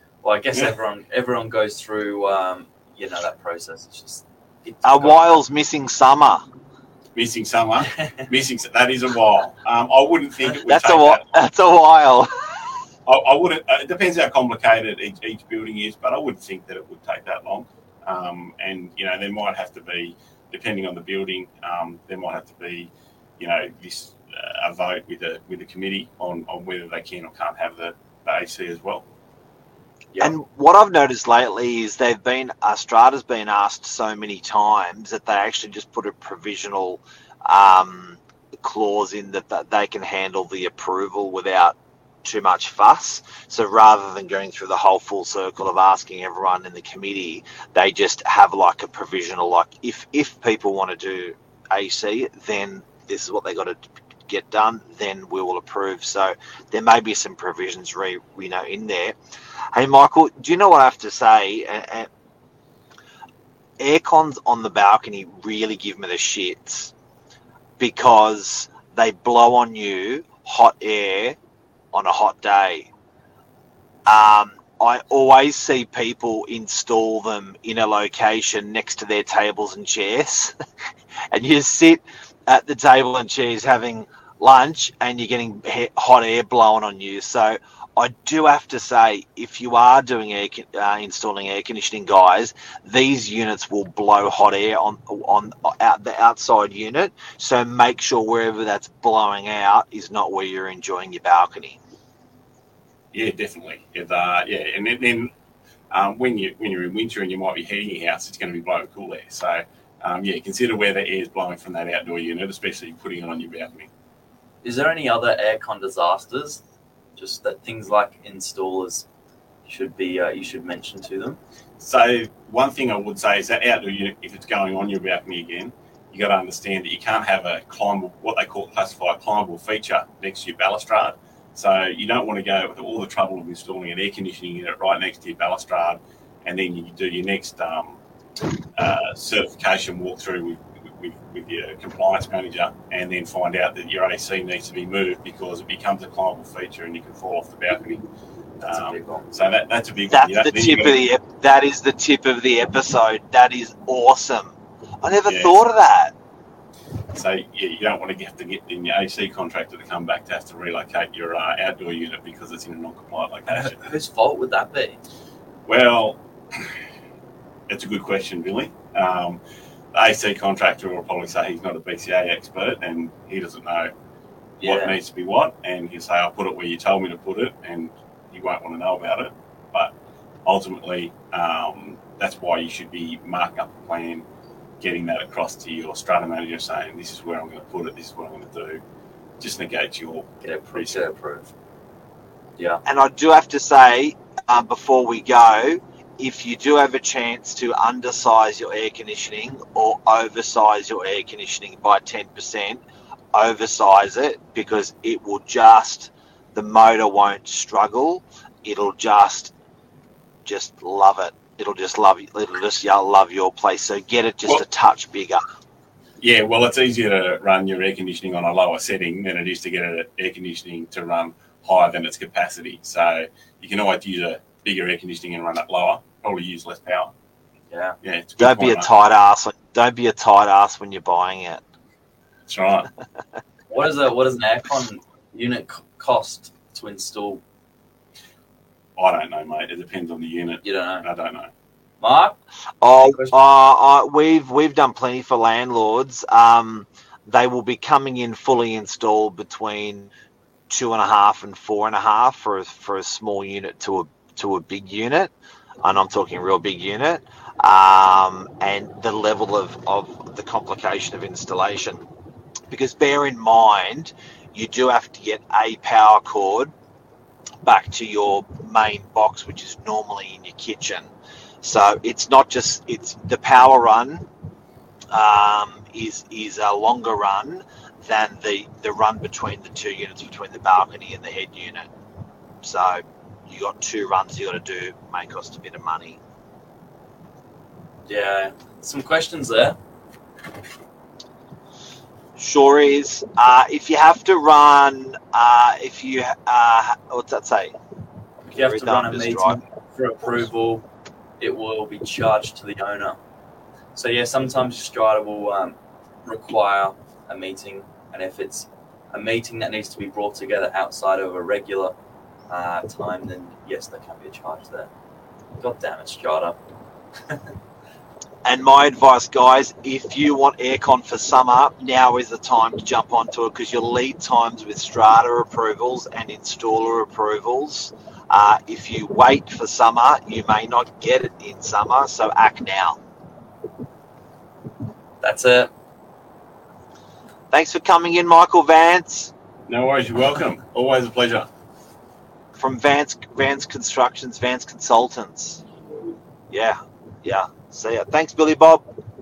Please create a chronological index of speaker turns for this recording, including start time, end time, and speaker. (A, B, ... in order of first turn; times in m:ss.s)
0:00.2-0:05.4 A
0:04.8-0:06.4 B
0:07.1-0:11.4 C
0:10.6-0:12.3 B
0:13.0-0:29.0 C
0:30.2-0:59.2 B
0:59.7-1:02.1 B
1:03.8-1:06.9 B
1:07.8-1:11.4 B
1:11.9-1:12.9 B
1:14.0-1:20.5 B
1:21.3-1:41.8 B
1:43.1-1:45.3 C
1:45.9-1:53.9 C
1:54.6-1:56.6 A
1:57.2-1:59.1 A
1:59.6-2:01.4 A
2:01.8-2:18.0 C
2:18.8-2:28.0 C
2:28.6-2:31.0 C
2:28.6-2:29.3 A
2:30.1-2:36.1 B
2:35.3-2:35.6 C
2:37.1-2:43.8 C
2:43.5-2:45.0 A
2:45.6-2:46.8 C
2:47.7-2:49.4 C
2:49.9-2:53.9 C
2:54.6-2:55.0 A
2:54.6-2:59.9 C
3:00.4-3:04.2 C
3:04.8-3:08.8 C
3:09.4-3:11.0 C
3:10.4-3:11.5 A
3:12.8-3:22.8 B
3:23.3-3:29.5 B
3:30.4-3:35.4 B
3:36.2-3:47.1 C
3:47.7-3:48.0 A
3:48.0-3:48.9 C
3:48.4-3:51.6 B
3:52.5-3:52.9 C
3:53.7-3:57.4 A
3:59.0-4:01.5 C
4:00.6-4:01.0 A
4:02.0-4:02.4 A
4:02.8-4:10.1 B
4:03.0-4:03.4 A
4:10.7-4:22.0 B
4:22.7-4:26.7 B
4:27.6-4:31.1 B
4:31.6-4:34.2 B
4:35.1-4:41.9 B
4:42.6-4:46.2 B
4:48.1-4:49.8 A
4:52.4-4:57.7 B
4:58.4-5:00.8 A
4:58.5-4:59.6 B
5:01.4-5:03.2 A
5:03.9-5:11.9 A
5:12.5-5:14.9 A
5:15.6-5:16.6 A
5:18.4-5:33.0 B
5:35.2-5:35.7 A
5:37.5-5:39.3 B
5:39.7-5:41.5 C
5:42.6-5:45.6 B
5:46.5-5:48.8 B